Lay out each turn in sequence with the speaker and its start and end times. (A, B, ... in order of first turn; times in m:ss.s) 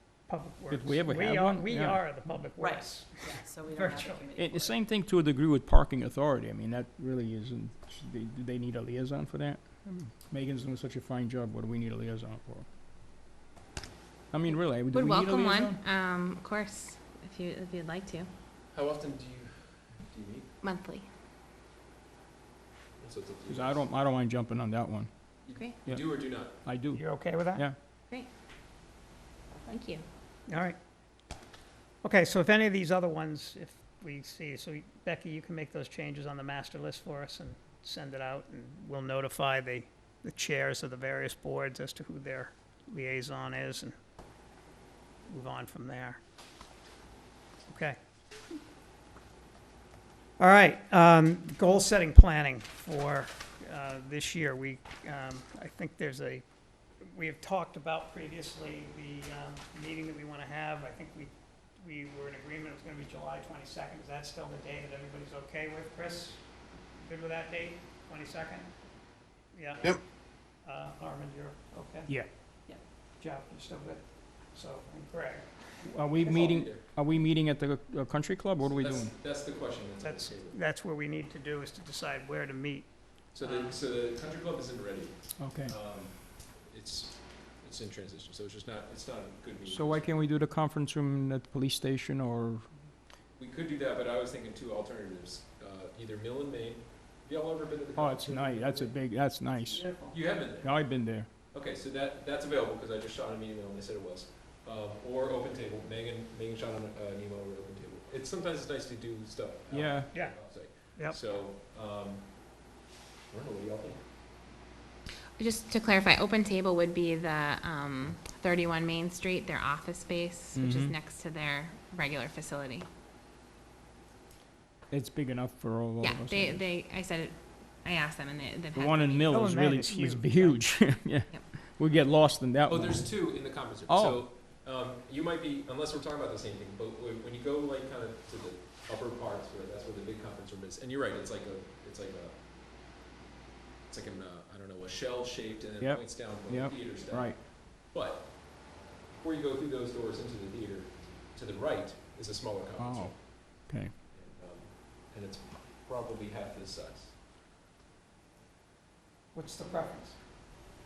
0:00.3-0:04.3 A
0:00.7-0:02.2 B
0:02.6-0:04.8 C
0:04.4-0:12.7 B
0:14.3-0:15.8 B
0:14.9-0:18.3 D
0:18.7-0:20.5 E
0:20.6-0:21.1 D
0:23.0-0:23.9 E
0:23.5-0:25.1 B
0:25.4-0:26.6 E
0:25.9-0:27.8 B
0:27.0-0:27.7 A
0:29.6-0:30.1 D
0:30.5-0:30.8 A
0:32.0-0:43.9 A
0:45.3-0:46.2 A
0:47.7-0:48.0 A
0:50.4-0:56.4 A
0:57.0-1:08.7 A
1:09.5-1:12.2 A
1:13.2-1:15.9 A
1:15.8-1:19.1 B
1:16.3-1:16.8 E
1:18.6-1:20.6 E
1:20.0-1:23.8 A
1:23.3-1:30.2 E
1:25.4-1:25.8 B
1:29.7-1:32.7 B
1:33.4-1:39.0 E
1:38.0-1:41.3 B
1:39.7-1:40.2 C
1:40.1-1:52.6 E
1:49.7-1:50.1 B
1:50.1-1:51.2 A
1:53.3-1:54.0 E
1:55.4-2:02.9 D
2:00.6-2:01.0 B
2:04.9-2:06.6 B
2:06.0-2:09.6 D
2:08.7-2:14.2 B
2:09.3-2:10.7 A
2:12.7-2:22.4 E
2:23.9-2:33.3 E
2:25.8-2:27.4 B
2:32.8-2:33.9 B
2:34.1-2:37.2 E
2:39.3-2:40.2 A